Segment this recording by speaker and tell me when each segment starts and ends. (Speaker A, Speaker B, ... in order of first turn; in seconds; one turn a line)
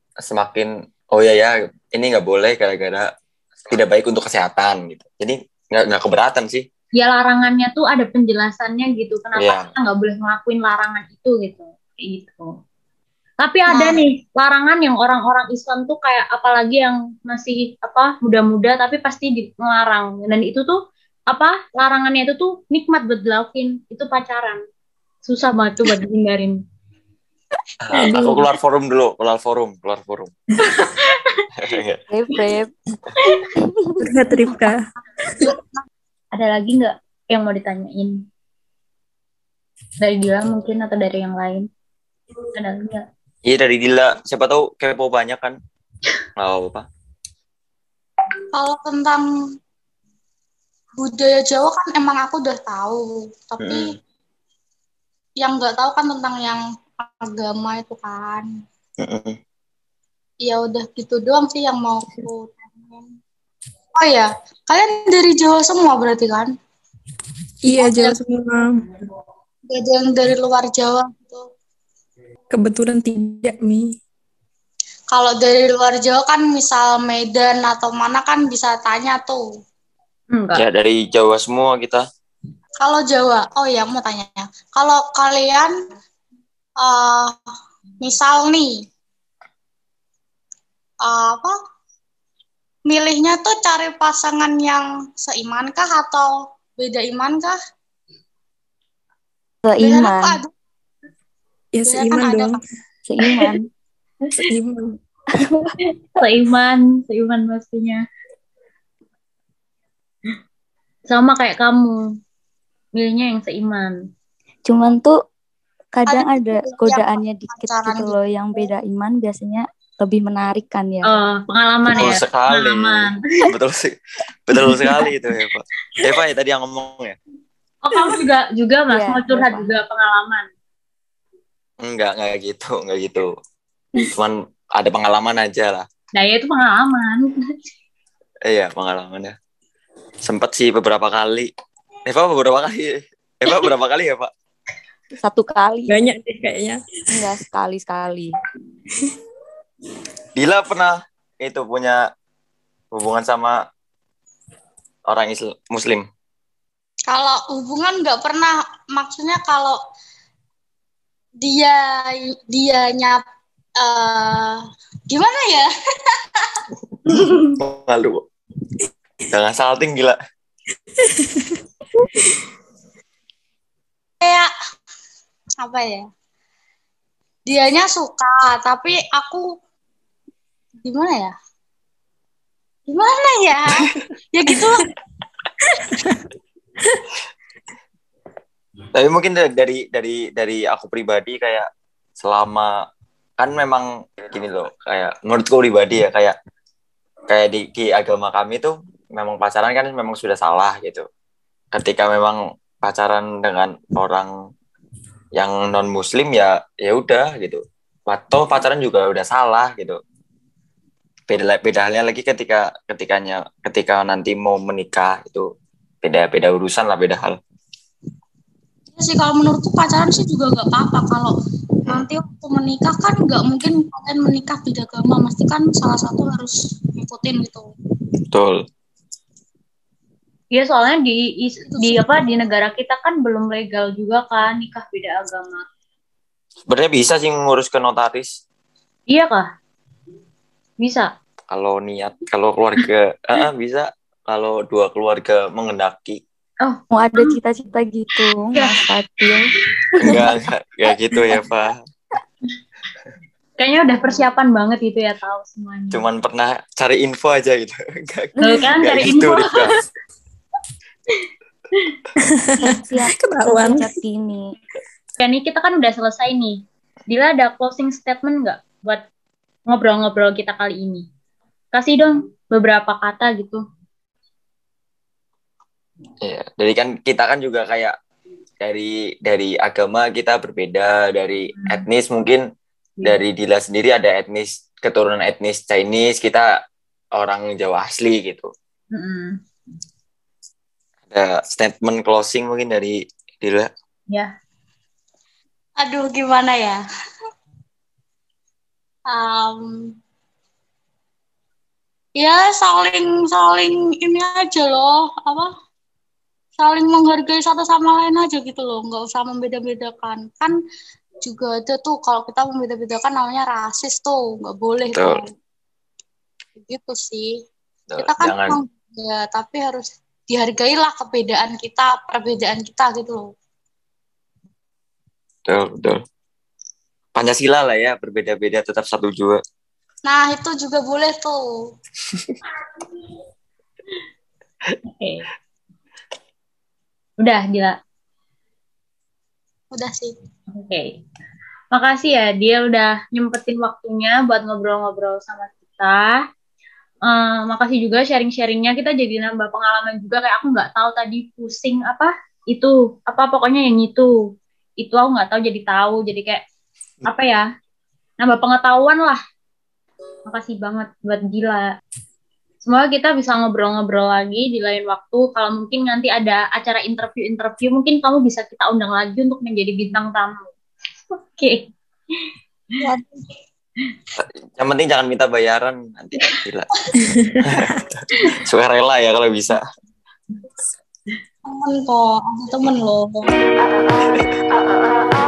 Speaker A: 0.2-3.1
Speaker A: 3.6-6.6
Speaker B: 7.0-12.5
Speaker A: 9.4-9.7
Speaker B: 13.4-20.8
Speaker C: 13.7-14.0
Speaker B: 21.3-24.6
Speaker B: 25.2-26.6
Speaker A: 27.8-30.3
Speaker D: 27.9-28.4
Speaker B: 30.6-31.4
Speaker A: 31.6-32.0
Speaker D: 32.1-32.7
Speaker D: 33.6-34.1
Speaker E: 34.0-35.5
Speaker B: 36.3-38.2
Speaker B: 40.0-41.7
Speaker B: 42.5-43.0
Speaker A: 43.5-45.6
Speaker A: 46.4-46.9
Speaker C: 48.5-49.2
Speaker C: 51.0-54.0
Speaker A: 53.6-53.9
Speaker C: 55.4-58.5
Speaker A: 59.0-59.4
Speaker C: 60.4-63.1
Speaker C: 64.0-66.5
Speaker E: 67.7-68.8
Speaker C: 67.8-68.2
Speaker C: 69.7-71.5
Speaker E: 72.5-73.9
Speaker C: 75.1-79.5
Speaker B: 80.3-80.7
Speaker A: 80.5-82.0
Speaker C: 82.8-85.7
Speaker C: 86.8-87.4
Speaker C: 88.0-88.8
Speaker C: 91.0-91.5
Speaker C: 92.9-97.6
Speaker D: 99.6-100.4
Speaker C: 99.8-100.5
Speaker E: 101.7-102.6
Speaker C: 101.9-102.6
Speaker D: 103.1-103.6
Speaker E: 104.5-105.0
Speaker D: 105.4-105.7
Speaker B: 106.2-108.0
Speaker B: 111.1-112.0
Speaker B: 113.0-114.0
Speaker D: 114.7-115.1
Speaker D: 115.9-121.2
Speaker C: 116.1-118.7
Speaker B: 121.0-123.1
Speaker A: 122.0-123.9
Speaker A: 124.5-127.2
Speaker B: 127.8-130.5
Speaker D: 128.9-129.7
Speaker A: 131.8-133.3
Speaker A: 134.1-135.9
Speaker B: 136.2-137.3
Speaker A: 138.5-139.4
Speaker A: 140.2-141.5
Speaker A: 142.1-144.3
Speaker D: 145.2-145.9
Speaker E: 145.9-147.3
Speaker D: 147.1-148.3
Speaker A: 150.4-152.0
Speaker A: 152.9-153.6
Speaker A: 155.1-156.1
Speaker C: 157.1-159.8
Speaker C: 161.4-163.2
Speaker C: 163.8-166.6
Speaker A: 167.1-168.2
Speaker B: 167.1-167.5
Speaker A: 169.3-170.2
Speaker E: 171.0-171.6
Speaker C: 174.2-174.5
Speaker C: 175.6-176.1
Speaker C: 177.5-179.5
Speaker C: 180.8-181.3
Speaker C: 182.9-184.9
Speaker E: 185.8-186.2
Speaker A: 188.9-191.7
Speaker A: 192.2-192.7
Speaker A: 193.4-196.3
Speaker A: 197.3-201.1
Speaker A: 201.7-204.3
Speaker A: 205.4-210.0
Speaker A: 211.3-215.5
Speaker A: 216.0-217.4
Speaker C: 218.9-221.3
Speaker C: 221.9-227.7
Speaker A: 228.3-228.6
Speaker B: 230.5-235.7
Speaker C: 231.7-232.1
Speaker A: 236.7-238.3
Speaker B: 239.1-239.5
Speaker B: 240.8-241.1
Speaker A: 241.5-246.2
Speaker B: 246.6-247.4
Speaker D: 246.9-249.5
Speaker B: 248.5-249.3
Speaker B: 249.9-250.3
Speaker A: 250.0-251.8
Speaker B: 253.6-256.0
Speaker A: 255.9-259.7
Speaker B: 258.4-259.7
Speaker E: 262.4-263.9
Speaker D: 262.6-264.4
Speaker B: 265.2-269.0
Speaker B: 269.7-271.0
Speaker B: 271.7-273.6
Speaker A: 276.2-277.9
Speaker A: 278.6-282.4
Speaker A: 283.0-286.5
Speaker A: 287.1-288.5
Speaker B: 288.9-289.4
Speaker A: 291.1-293.7
Speaker C: 295.8-296.8
Speaker C: 299.1-299.9
Speaker C: 302.2-305.5
Speaker C: 306.6-310.5
Speaker C: 311.2-315.3
Speaker A: 314.9-315.2
Speaker C: 316.6-317.3
Speaker A: 317.9-318.6
Speaker C: 318.0-323.3
Speaker A: 325.5-326.0
Speaker A: 327.1-329.4
Speaker C: 330.1-331.4
Speaker A: 332.1-332.4
Speaker B: 334.9-335.2
Speaker B: 337.2-337.8
Speaker C: 339.7-340.1
Speaker B: 340.5-340.9
Speaker B: 341.7-346.2
Speaker B: 347.1-354.1
Speaker B: 354.8-356.4
Speaker B: 357.0-357.5
Speaker B: 358.2-359.2
Speaker B: 360.3-361.7
Speaker B: 362.7-370.5
Speaker B: 371.3-371.7
Speaker C: 372.8-373.3
Speaker A: 374.2-376.7
Speaker E: 377.1-377.7
Speaker A: 377.4-379.6
Speaker C: 381.5-383.3
Speaker A: 384.0-384.3